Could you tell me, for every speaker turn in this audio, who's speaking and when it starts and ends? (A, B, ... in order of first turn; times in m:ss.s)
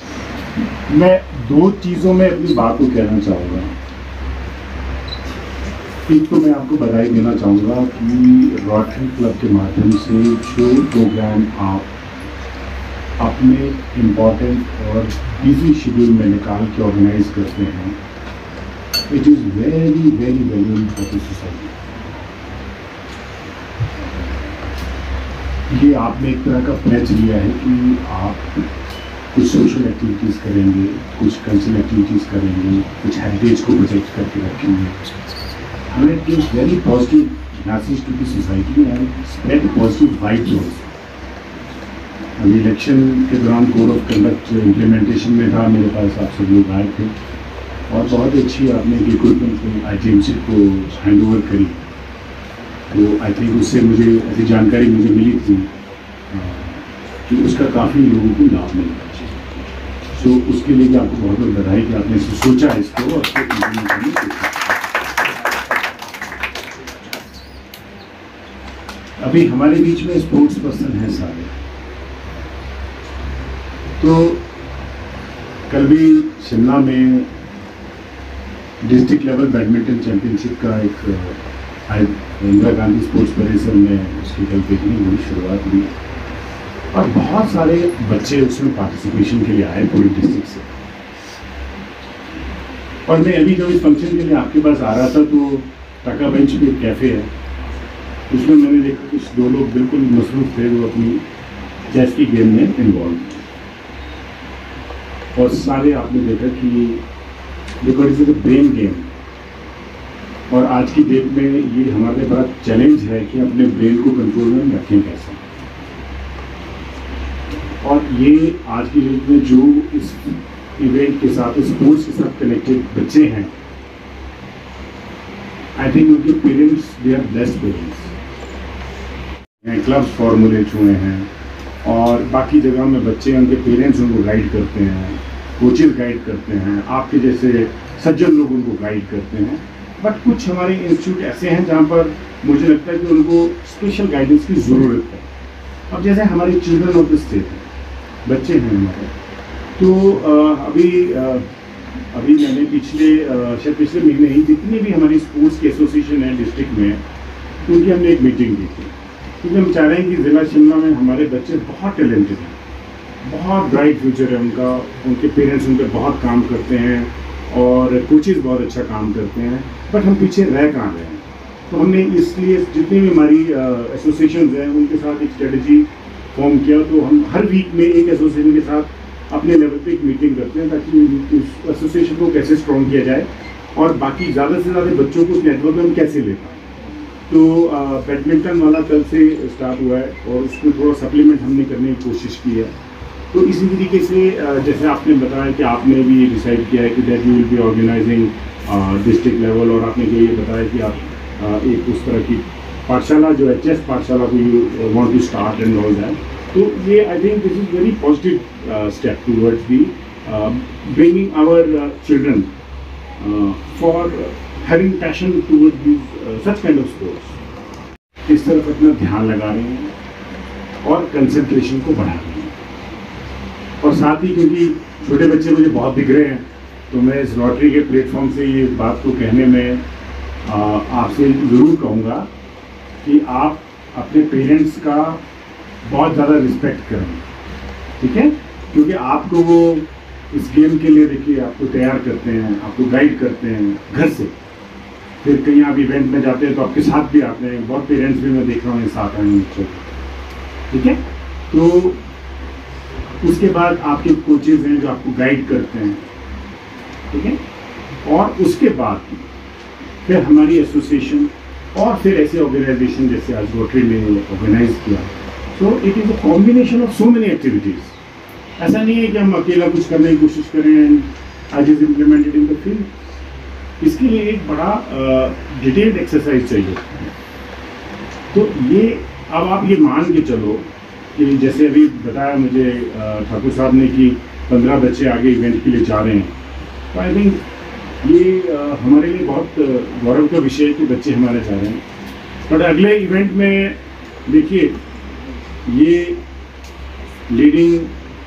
0:00.9-0:03.7 A
0:06.0-0:11.9 A
0:13.2-0:18.0 A
0:19.1-0:21.7 A
0:25.7-0:28.6 A
0:29.3-0:35.1 A
0:35.9-0:40.8 A
0:42.4-0:47.2 A
0:47.9-0:51.8 A
0:52.9-0:55.7 A
0:56.3-0:59.4 A
1:00.1-1:04.8 A
1:09.2-1:11.5 A
1:14.0-1:14.4 A
1:15.7-1:17.3 A
1:18.8-1:25.9 A
1:26.9-1:30.7 A
1:33.0-1:37.3 A
1:38.3-1:41.2 A
1:41.8-1:43.4 A
1:45.3-1:47.0 A
1:47.8-1:49.1 A
1:50.5-1:55.4 A
1:57.8-2:03.5 A
2:05.7-2:08.2 A
2:09.6-2:11.3 A
2:11.8-2:25.3 A
2:25.9-2:27.7 A
2:28.2-2:29.1 A
2:29.8-2:31.5 A
2:32.1-2:37.0 A
2:37.6-2:42.6 A
2:43.2-3:06.7 A
3:07.3-3:12.7 A
3:13.3-3:32.5 A
3:33.2-3:37.4 A
3:38.3-3:39.9 A
3:40.8-3:42.6 A
3:43.8-3:49.8 A
3:50.4-3:52.3 A
3:53.0-3:55.2 A
3:55.8-3:57.2 A
3:58.0-4:04.3 A
4:05.2-4:09.9 A
4:10.7-4:12.0 A
4:13.2-4:16.0 A
4:17.1-4:17.4 A
4:18.0-4:19.3 A
4:20.0-4:28.0 A
4:28.6-4:32.9 A
4:33.8-4:37.1 A
4:38.3-4:46.4 A
4:46.9-4:47.4 A
4:48.0-4:51.8 A
4:52.4-4:54.8 A
4:55.6-4:56.2 A
4:57.3-4:58.0 A